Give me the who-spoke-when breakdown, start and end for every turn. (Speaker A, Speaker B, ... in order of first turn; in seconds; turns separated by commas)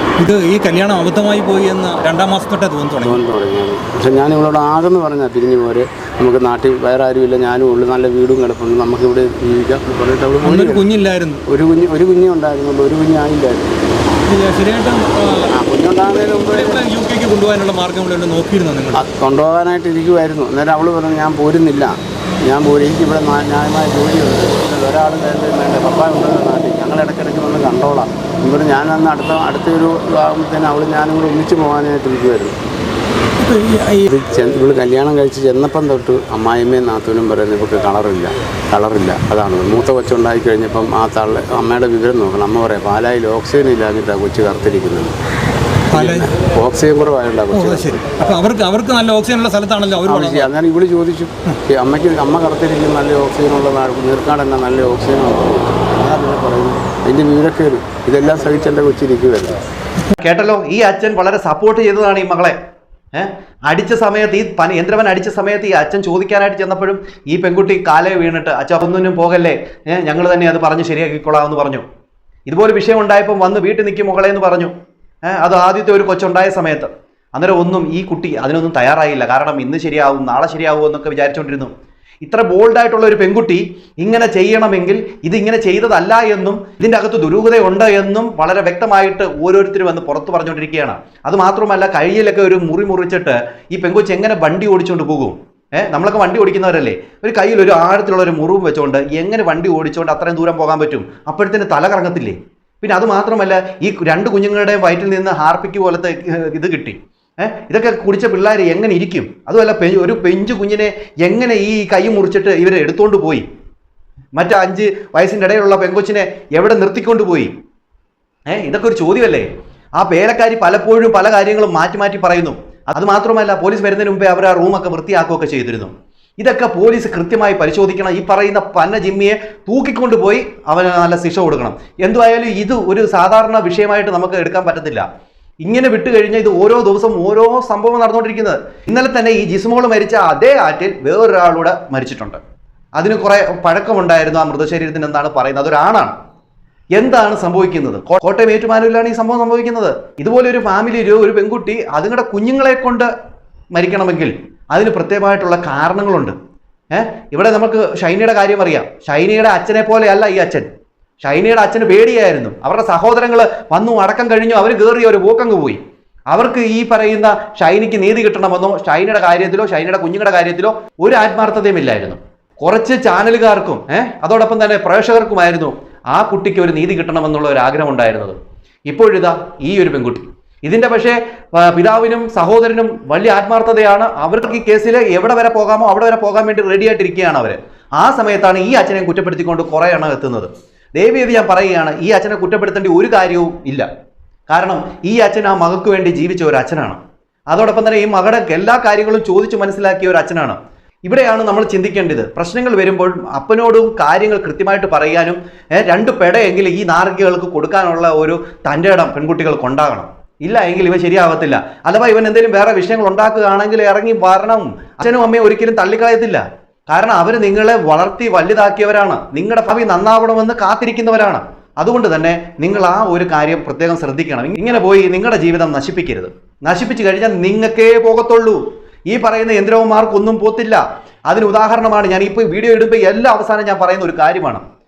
Speaker A: 0.2-3.2, Speaker B: 3.0-10.8, Speaker A: 10.4-11.4, Speaker B: 11.5-13.7, Speaker A: 14.2-15.5, Speaker B: 15.5-16.8, Speaker A: 16.4-19.0, Speaker B: 18.9-21.9, Speaker B: 22.4-32.5, Speaker A: 33.4-34.1, Speaker B: 34.1-45.1, Speaker A: 45.9-46.3, Speaker B: 45.9-48.1, Speaker A: 47.5-50.5, Speaker B: 50.0-59.6, Speaker C: 60.2-62.5, Speaker C: 63.1-71.8, Speaker C: 72.5-74.7, Speaker C: 75.3-81.7, Speaker C: 82.2-113.4, Speaker C: 114.3-117.5, Speaker C: 118.5-135.1, Speaker C: 135.6-142.4, Speaker C: 142.9-146.1, Speaker C: 146.9-153.1, Speaker C: 153.7-156.3, Speaker C: 156.9-160.7, Speaker C: 161.2-165.8, Speaker C: 166.3-178.3, Speaker C: 178.9-193.9, Speaker C: 194.5-197.0, Speaker C: 197.5-234.6